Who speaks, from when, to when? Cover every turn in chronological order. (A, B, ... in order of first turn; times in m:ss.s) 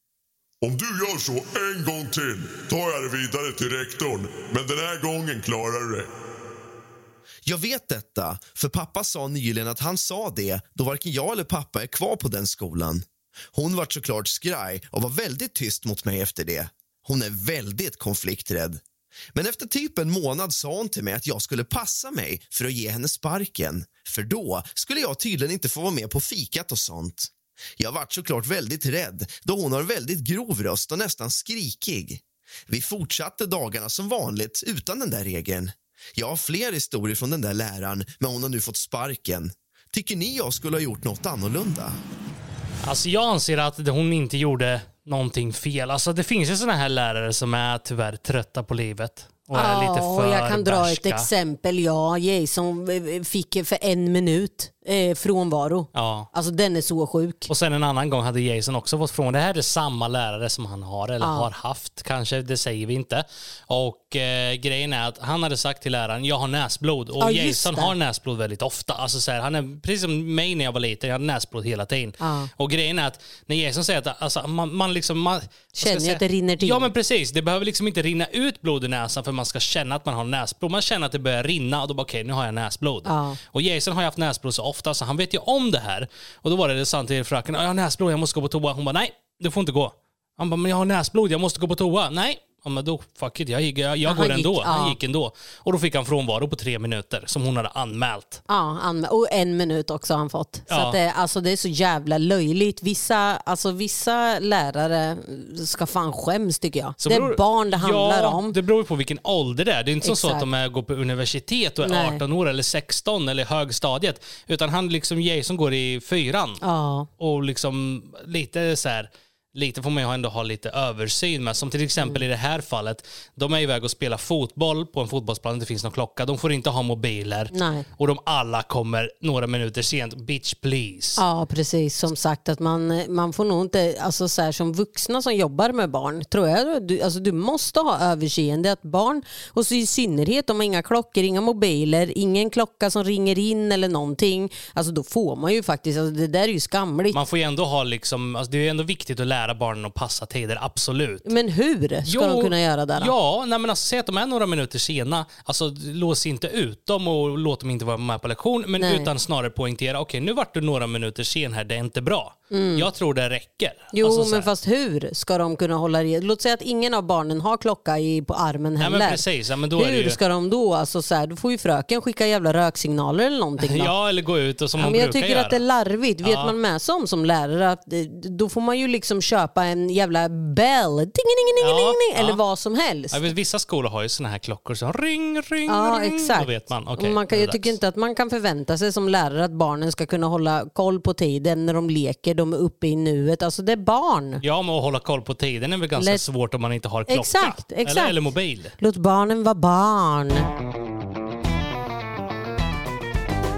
0:00.6-0:06.1 A
0:07.4-0:18.8 B
0:19.3-0:42.0 B
0:42.8-0:51.3 C
0:49.5-0:57.5 D
0:55.9-0:56.3 C
0:57.5-1:38.4 C
1:01.2-1:01.5 D
1:07.2-1:07.9 D
1:12.2-1:12.5 D
1:15.8-1:16.9 D
1:23.0-1:23.4 D
1:34.0-1:35.0 D
1:38.5-1:48.6 D
1:40.7-1:41.0 C
1:47.0-1:56.6 C
1:50.0-1:50.4 D
1:51.8-1:52.2 D
1:56.6-1:57.1 D
1:57.2-2:11.2 C
2:07.5-2:07.8 D
2:11.2-2:27.2 D
2:27.1-2:31.3 C
2:31.2-2:33.1 D
2:32.1-2:44.5 C
2:38.8-2:39.1 D
2:42.5-2:42.9 D
2:43.9-2:49.2 D
2:48.8-2:50.2 C
2:49.8-2:53.9 D
2:53.6-2:55.6 C
2:54.8-3:03.3 D
2:56.2-2:56.5 C
3:01.6-3:02.4 C
3:03.1-3:07.8 C
3:05.7-3:14.4 D
3:14.4-3:18.8 C
3:17.1-3:18.2 D
3:18.8-3:20.5 D